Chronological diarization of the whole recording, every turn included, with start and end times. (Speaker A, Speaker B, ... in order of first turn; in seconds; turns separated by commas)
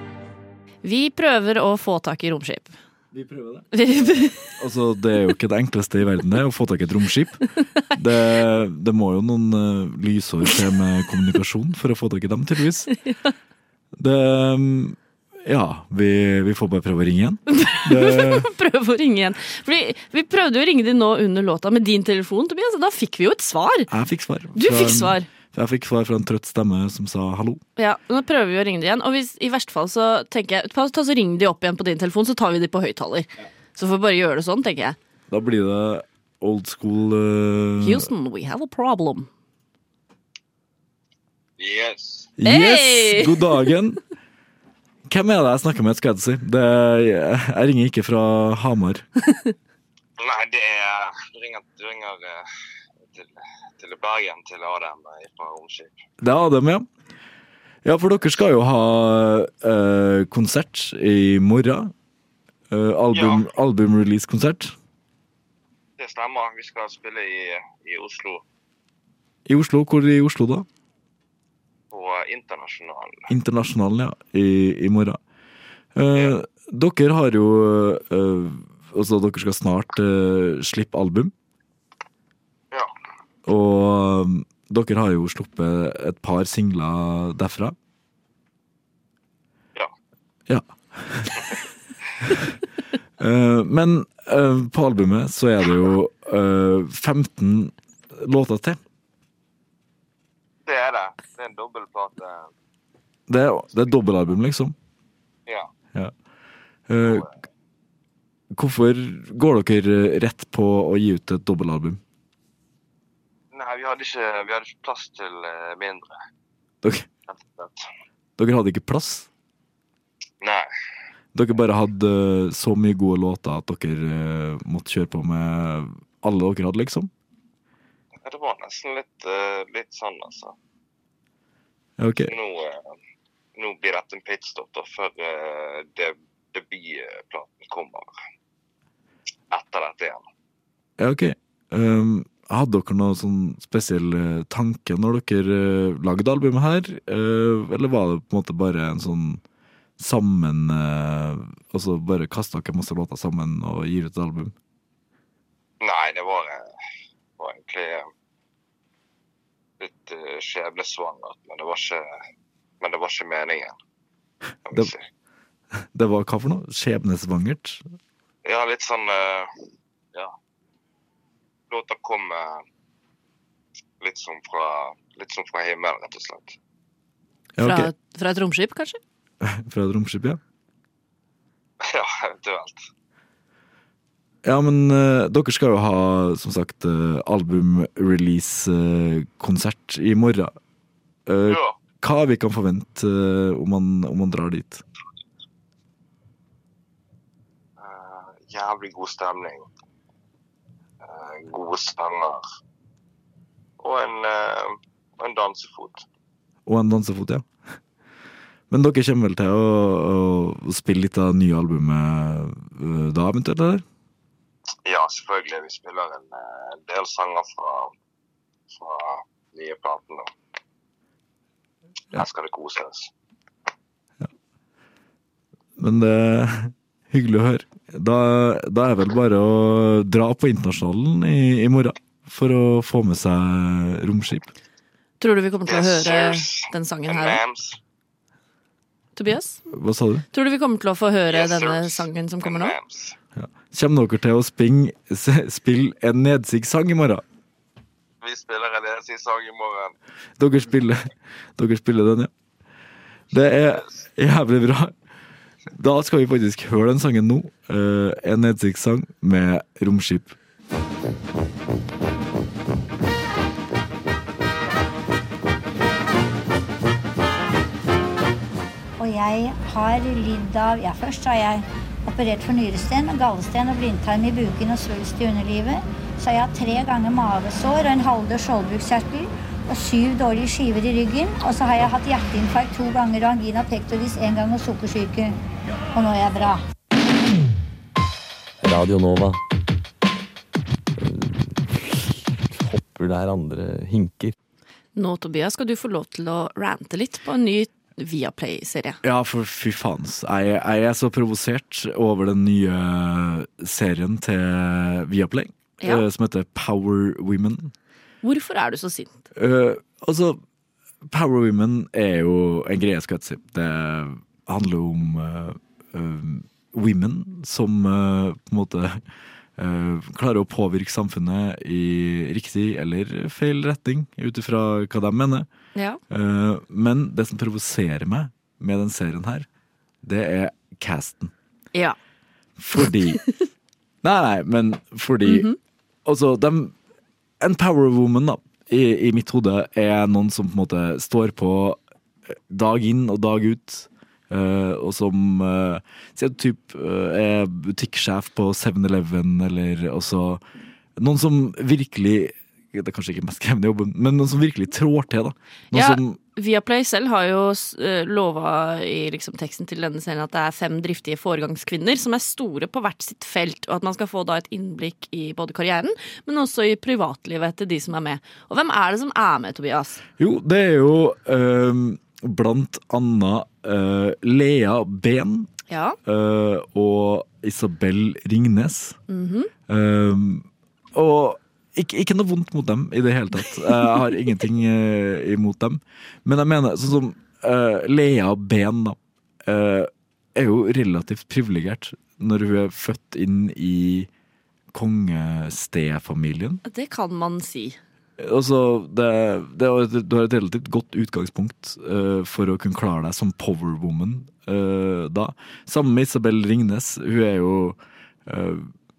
Speaker A: 0.8-2.7, Speaker B: 3.1-3.8, Speaker A: 3.7-4.5, Speaker B: 4.4-7.4, Speaker B: 7.9-12.9, Speaker A: 12.9-13.3, Speaker B: 13.9-18.5, Speaker A: 17.5-23.9, Speaker B: 23.9-27.6, Speaker A: 24.5-25.3, Speaker A: 27.8-35.0, Speaker B: 35.3-38.1, Speaker A: 37.8-39.3, Speaker C: 41.6-42.3, Speaker B: 42.4-44.0, Speaker A: 42.5-43.6, Speaker B: 45.1-49.0, Speaker C: 50.2-52.4, Speaker C: 53.0-56.0, Speaker B: 56.2-56.9, Speaker B: 57.8-61.9, Speaker B: 62.7-64.7, Speaker C: 63.1-63.4, Speaker C: 66.0-68.4, Speaker B: 69.5-70.7, Speaker C: 71.9-73.3, Speaker B: 73.3-75.2, Speaker B: 75.9-81.3, Speaker B: 83.5-87.8, Speaker B: 90.5-91.5, Speaker B: 92.2-92.6, Speaker B: 93.2-98.8, Speaker C: 100.7-102.5, Speaker B: 103.3-104.8, Speaker B: 106.9-107.2, Speaker B: 108.5-112.0, Speaker C: 113.5-116.1, Speaker B: 116.8-117.1, Speaker C: 117.3-117.8, Speaker B: 118.4-119.3, Speaker C: 120.4-120.7, Speaker B: 121.3-127.1, Speaker C: 128.2-130.5, Speaker B: 132.0-132.3, Speaker C: 132.3-132.9, Speaker C: 133.6-138.1, Speaker C: 139.5-140.2, Speaker B: 141.0-149.4, Speaker B: 150.0-154.5, Speaker C: 155.8-156.7, Speaker C: 157.4-158.1, Speaker C: 159.8-162.0, Speaker C: 162.8-163.7, Speaker C: 164.7-165.1, Speaker B: 165.7-167.8, Speaker C: 168.4-169.5, Speaker C: 171.7-172.6, Speaker C: 174.0-176.6, Speaker B: 177.6-177.9, Speaker A: 177.6-179.0, Speaker B: 179.4-180.4, Speaker C: 181.8-182.8, Speaker B: 184.4-190.5, Speaker B: 191.2-194.8, Speaker C: 191.5-191.8, Speaker C: 197.8-199.7, Speaker C: 201.0-202.4, Speaker C: 203.8-206.0, Speaker B: 206.7-207.5, Speaker B: 208.7-213.8, Speaker C: 214.8-217.9, Speaker C: 218.7-220.3, Speaker C: 222.1-223.1, Speaker B: 225.8-234.5, Speaker A: 235.2-237.4, Speaker C: 235.7-237.8, Speaker A: 239.2-239.6, Speaker B: 239.7-240.2, Speaker A: 240.3-242.7, Speaker C: 241.3-243.2, Speaker B: 243.3-247.2, Speaker C: 248.2-249.9, Speaker B: 250.4-252.3, Speaker B: 253.3-254.9, Speaker C: 253.4-254.0, Speaker B: 255.7-260.3, Speaker D: 269.0-285.4, Speaker D: 285.9-286.6, Speaker E: 288.6-289.4, Speaker E: 290.9-294.3, Speaker A: 294.9-299.0, Speaker B: 299.0-307.7, Speaker A: 308.2-309.1, Speaker B: 309.3-310.4, Speaker B: 311.1-319.0, Speaker B: 319.6-325.5, Speaker A: 325.7-326.0, Speaker B: 326.1-329.5, Speaker B: 330.0-331.3, Speaker B: 332.6-333.2, Speaker B: 334.0-335.5, Speaker A: 335.2-335.6, Speaker B: 336.1-336.8, Speaker B: 337.4-341.8, Speaker B: 342.5-350.4, Speaker B: 351.0-356.2, Speaker A: 355.7-370.0, Speaker B: 370.2-375.5, Speaker A: 375.7-376.0, Speaker B: 376.0-379.0, Speaker A: 379.1-379.5, Speaker B: 379.7-394.1, Speaker B: 394.7-396.6, Speaker A: 396.6-397.8, Speaker B: 398.2-408.7